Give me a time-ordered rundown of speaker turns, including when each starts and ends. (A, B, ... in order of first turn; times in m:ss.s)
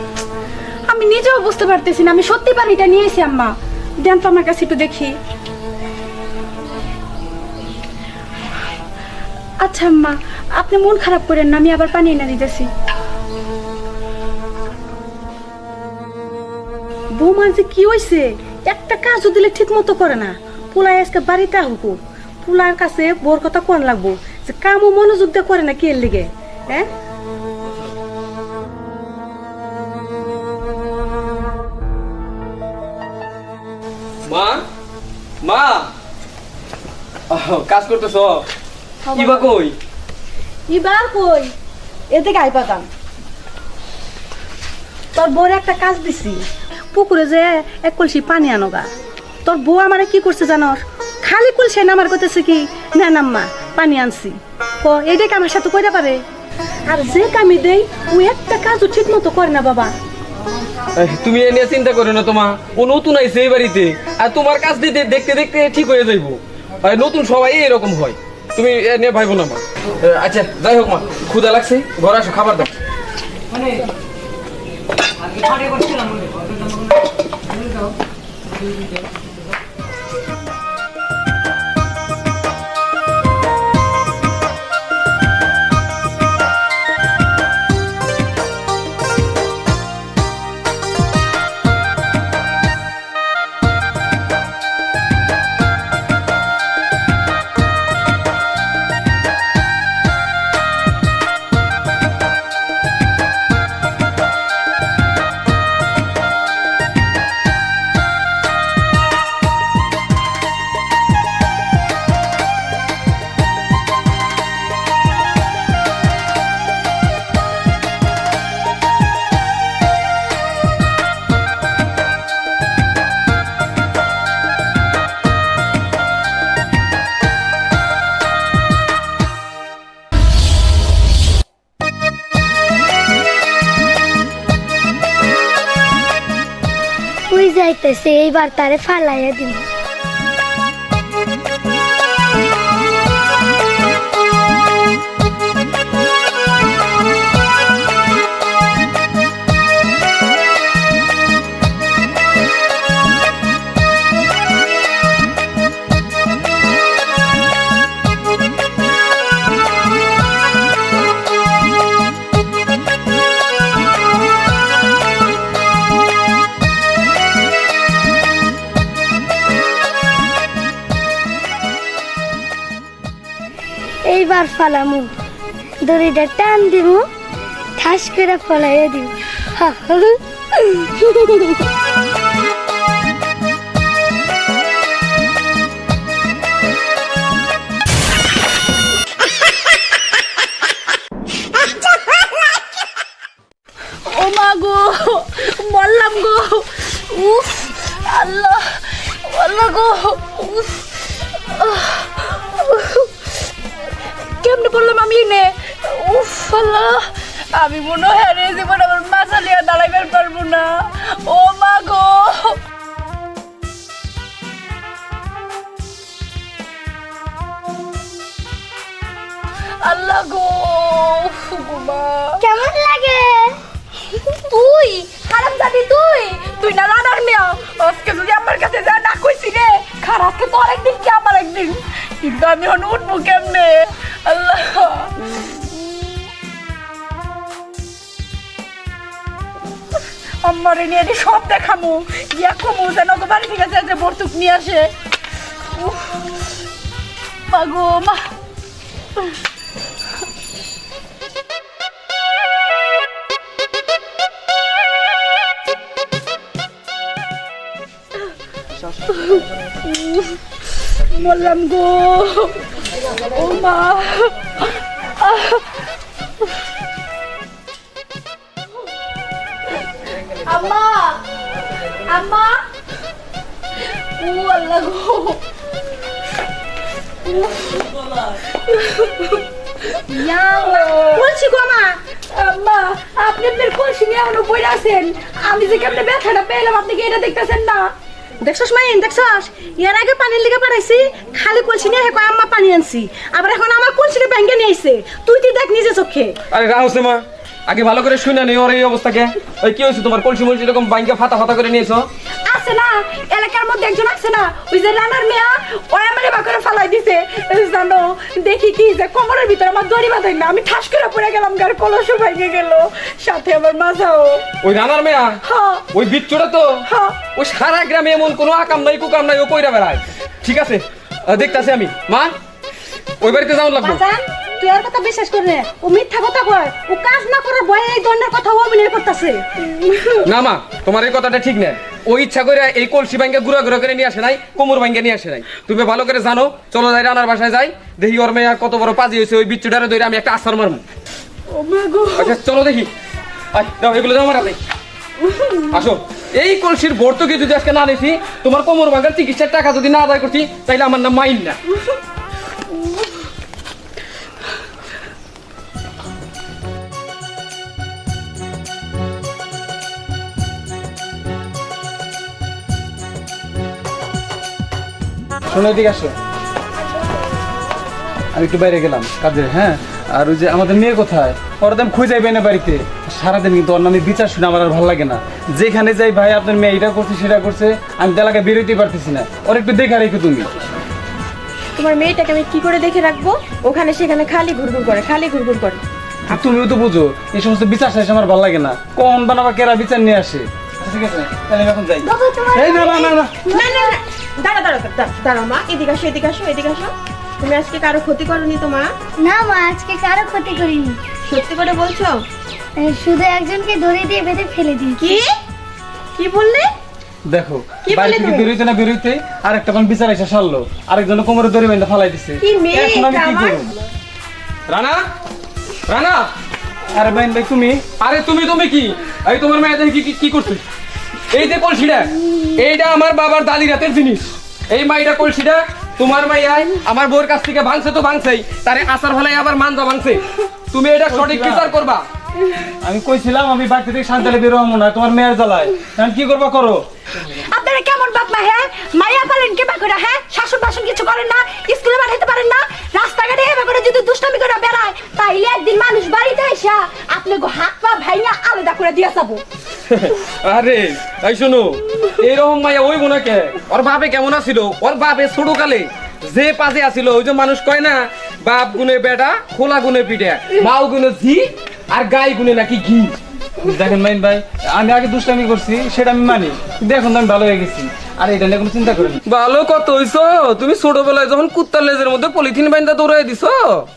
0:00.9-0:03.5 A
0:00.9-0:05.1 B
0:04.0-0:05.1 A
0:09.6-0:12.7 B
0:09.6-0:12.6 A
0:17.1-0:26.9 B
0:34.2-0:34.6 C
0:35.4-0:35.9 C
0:37.3-0:38.4 C
0:39.1-0:39.8 C
0:39.2-0:39.5 D
0:40.7-0:41.5 B
0:42.1-0:42.9 D
0:45.1-0:48.8 B
0:49.4-0:56.2 B
0:56.8-0:59.9 B
1:01.0-1:12.7 C
1:15.6-1:16.1 C
2:17.3-2:19.6 E
2:54.0-2:55.1 E
2:55.8-2:57.1 E
2:57.8-3:01.4 E
3:14.1-3:18.7 B
3:14.7-3:15.5 A
3:16.1-3:16.7 A
3:17.3-3:18.9 A
3:19.2-3:20.8 B
3:21.5-3:23.0 B
3:21.6-3:23.0 A
3:24.4-3:26.5 B
3:24.4-3:28.8 A
3:27.6-3:30.0 B
3:29.5-3:32.6 A
3:39.8-3:42.4 A
3:42.4-3:43.6 E
3:44.4-3:55.1 A
4:00.4-4:04.9 A
4:05.9-4:06.2 A
4:07.5-4:08.3 A
4:21.2-4:22.4 B
4:21.2-4:22.6 A
4:23.4-4:24.3 B
4:23.4-4:24.3 A
4:30.4-4:31.2 B
4:30.6-4:31.2 A
4:32.0-4:32.6 A
4:34.2-4:35.4 A
4:38.8-4:39.4 A
4:40.1-4:41.3 A
4:40.4-4:42.0 B
4:42.3-4:47.9 A
4:48.4-4:56.3 B
4:56.5-5:02.1 C
5:02.5-5:14.4 A
5:03.1-5:03.5 B
5:14.6-5:15.4 C
5:15.5-5:15.8 A
5:15.9-5:22.3 C
5:23.2-5:24.0 C
5:23.8-5:29.6 B
5:30.2-5:40.8 C
5:41.6-5:42.0 B
5:42.1-5:42.9 C
5:43.5-5:44.6 C
5:45.7-5:51.6 C
6:05.5-6:06.1 F
6:08.3-6:20.5 F
6:21.8-6:25.8 D
6:26.3-6:33.4 F
6:32.0-6:33.7 E
6:33.5-6:38.9 D
6:39.2-6:41.0 E
6:41.2-6:42.2 D
6:42.8-6:45.1 E
6:45.0-6:45.3 D
6:46.2-6:46.7 D
6:47.3-6:53.7 F
6:47.8-6:48.5 D
6:52.4-6:53.7 D
6:54.7-6:55.0 C
6:55.9-6:56.3 C
6:56.9-6:57.8 F
6:58.0-7:00.6 C
7:01.3-7:12.0 C
7:11.1-7:11.7 F
7:12.8-7:16.8 F
7:17.4-7:29.4 A
7:20.0-7:21.1 B
7:21.8-7:22.1 B
7:23.3-7:29.4 B
7:29.9-7:43.1 C
7:43.6-7:49.2 F
7:49.2-7:53.9 C